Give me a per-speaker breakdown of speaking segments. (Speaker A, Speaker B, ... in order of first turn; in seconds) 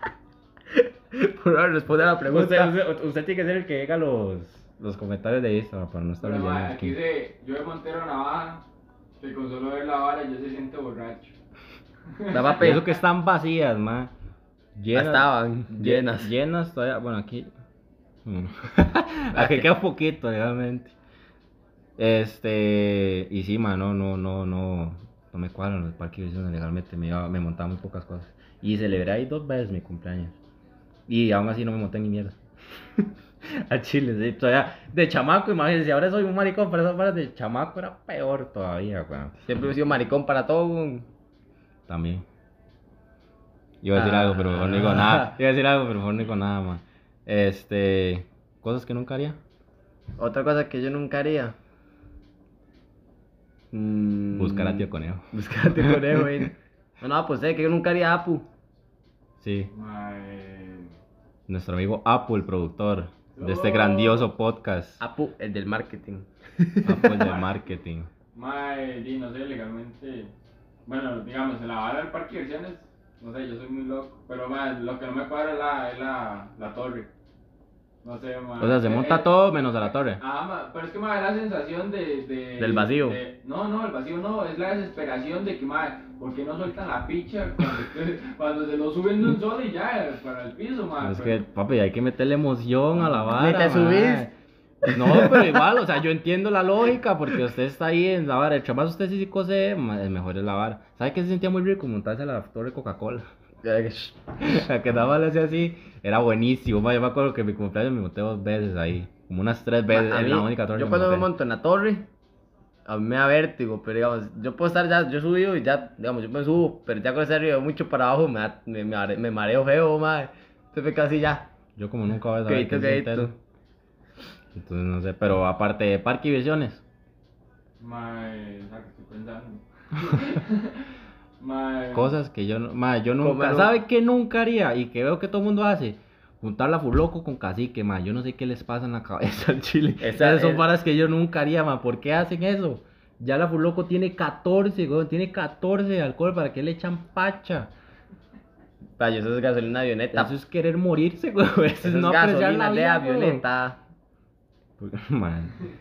Speaker A: 1.1-2.7, 12.3-12.8, 14.9-16.3, 19.3-19.7, 39.5-41.0, 43.9-45.3, 50.2-51.5, 53.7-58.5, 65.0-67.1, 82.6-83.2, 93.3-94.3, 94.8-95.5, 103.6-104.2, 109.9-112.0, 112.8-121.5, 122.5-123.3, 133.2-133.7, 140.0-140.6, 149.0-150.3, 151.8-153.8
Speaker B: 2.3-7.0, 12.6-14.1, 14.8-17.5, 18.2-20.9, 22.0-30.3, 31.1-32.4, 33.0-39.4, 41.9-42.2, 43.8-49.4, 54.3-56.4, 59.4-59.7, 61.5-65.0, 66.8-68.1, 78.6-80.2, 91.0-94.3, 94.9-103.3, 104.4-111.3, 121.8-123.3, 124.5-126.8, 131.9-147.7, 150.1-153.4, 154.8-155.5
Speaker C: 6.2-8.6, 9.2-11.3, 12.1-12.6, 59.7-60.9, 63.3-64.3, 67.1-67.6, 68.3-70.3, 70.8-77.1, 78.0-79.3, 80.2-91.4, 127.8-130.8, 131.4-132.1